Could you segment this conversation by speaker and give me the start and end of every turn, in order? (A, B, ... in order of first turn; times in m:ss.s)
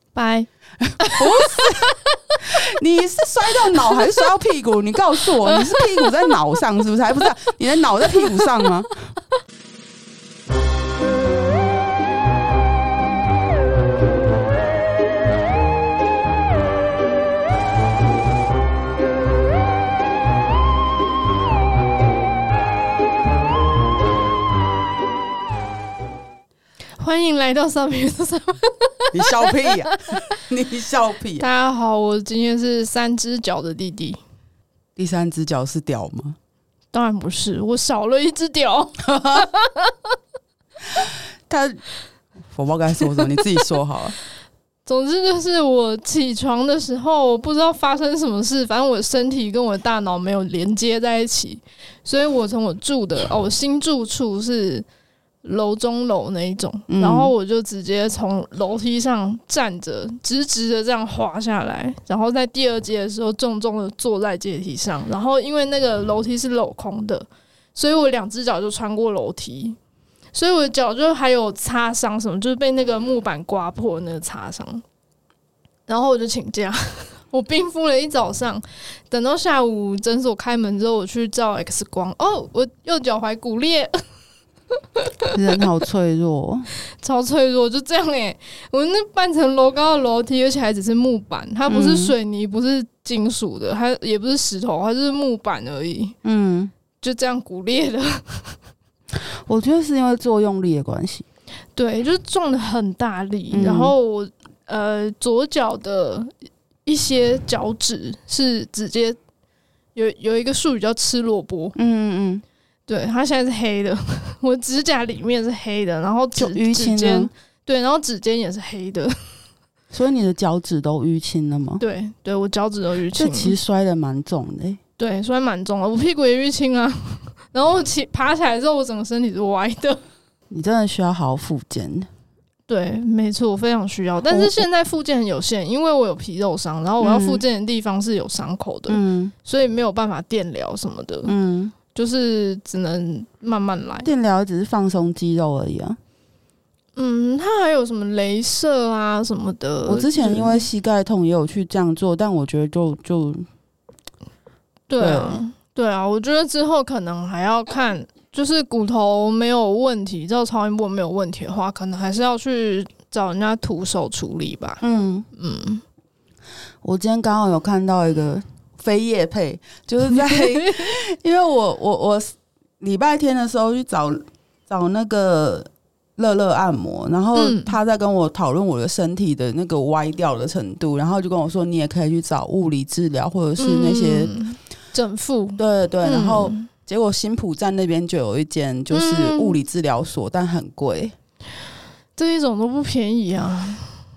0:00.1-0:00.5 A
0:00.8-0:09.1 B
0:01.0-0:02.4 A
0:03.6-0:04.2 A
0:05.5-0:06.0 A
0:08.2-0:08.4 A
0:27.0-0:30.2 A
0:29.1-0:31.4 B
0:31.4-0:34.2 A
0:35.0-0:36.4 B
0:36.9-0:40.1 A
0:39.1-0:39.5 B
0:41.0-0:41.8 B
0:42.5-0:44.2 B
0:43.3-0:43.6 A
0:44.8-0:54.8 A
0:55.4-1:09.8 A
0:56.9-0:57.3 B
1:10.3-1:14.8 A
1:15.9-1:24.0 A
1:24.7-1:25.3 A
1:25.3-1:26.7 B
1:26.9-1:36.2 A
1:31.7-1:32.1 B
1:36.2-1:36.7 B
1:37.0-1:38.6 A
1:39.5-1:41.2 B
1:41.7-1:46.3 A
1:43.5-1:43.9 B
1:46.8-1:49.2 A
1:49.9-1:51.7 A
1:51.8-1:52.4 B
1:52.9-1:59.4 A
1:56.4-1:57.3 B
1:59.9-2:01.8 B
2:01.8-2:03.5 A
2:03.1-2:04.8 B
2:05.0-2:10.0 A
2:10.5-2:12.1 B
2:12.7-2:21.3 A
2:14.3-2:14.6 B
2:17.0-2:17.4 B
2:18.9-2:19.3 B
2:21.2-2:21.7 B
2:21.9-2:24.1 A
2:24.0-2:26.0 B
2:27.0-2:30.7 A
2:29.8-2:33.5 B
2:34.9-2:44.8 A
2:35.0-2:35.4 B
2:44.8-2:45.3 B
2:45.4-2:45.8 A
2:46.8-3:04.3 B
2:50.1-2:50.9 A
2:57.3-2:57.7 A
3:03.6-3:06.7 A
3:05.6-3:11.1 B
3:08.9-3:09.6 A
3:12.2-3:14.0 A